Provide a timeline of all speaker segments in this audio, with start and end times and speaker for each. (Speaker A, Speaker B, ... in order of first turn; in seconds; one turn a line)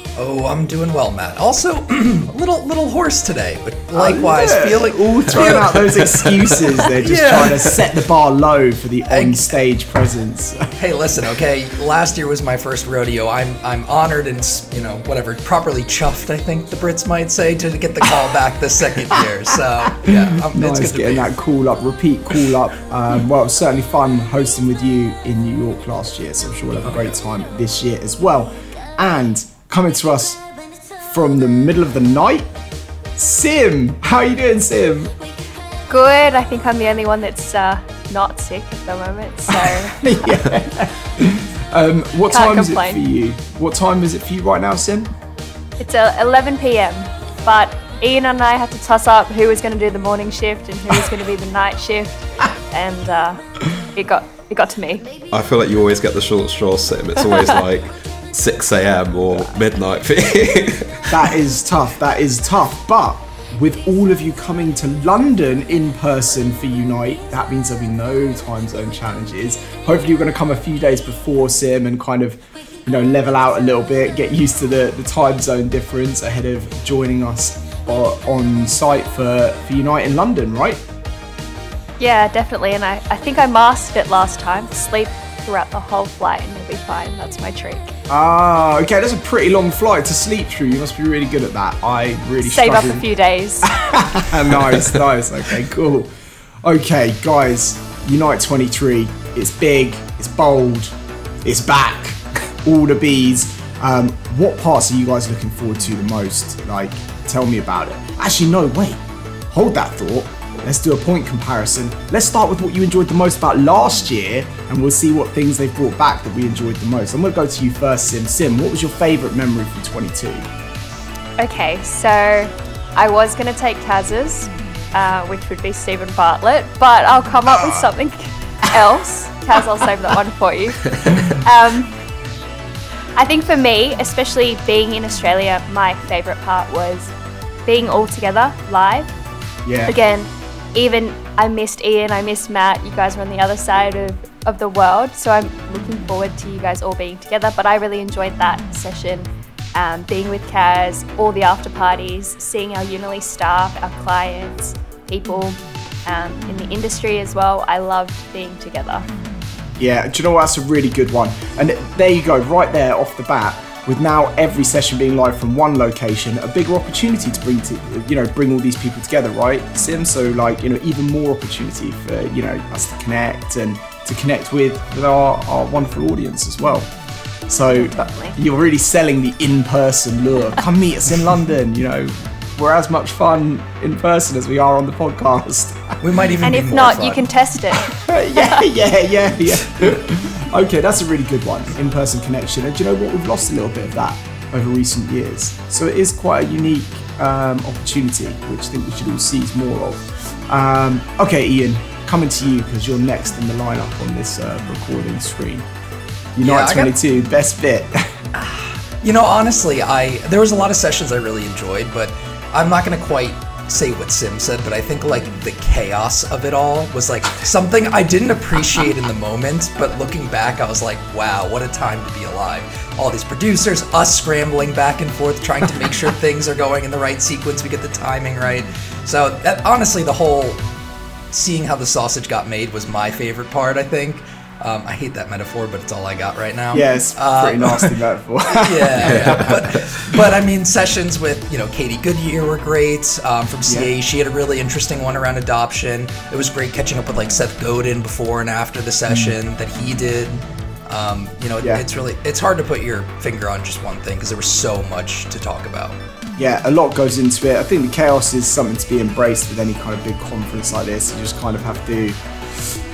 Speaker A: 0.1-7.9
Speaker B: 3.9-10.7
Speaker A: 9.1-9.6
Speaker A: 10.8-21.3
Speaker B: 20.0-30.4
Speaker B: 31.0-32.5
Speaker B: 33.1-35.1
Speaker C: 35.9-40.2
Speaker B: 39.5-45.1
Speaker C: 42.3-43.0
Speaker C: 45.8-55.1
Speaker D: 55.3-61.3
Speaker B: 61.1-80.8
Speaker C: 82.0-87.9
Speaker B: 88.1-93.0
Speaker C: 92.4-94.0
Speaker B: 93.7-96.1
Speaker B: 96.6-120.5
Speaker C: 121.4-131.9
Speaker C: 133.2-137.1
Speaker C: 137.6-139.1
Speaker B: 139.7-139.9
Speaker C: 139.9-159.1
Speaker B: 159.8-176.9
Speaker B: 177.5-186.0
Speaker C: 177.8-178.3
Speaker A: 186.0-187.3
Speaker C: 186.4-188.6
Speaker B: 187.8-205.7
Speaker B: 206.3-208.2
Speaker A: 206.4-206.9
Speaker A: 208.3-230.6
Speaker A: 231.3-238.0
Speaker B: 236.7-239.6
Speaker A: 238.5-256.0
Speaker D: 239.0-239.8
Speaker B: 256.4-262.8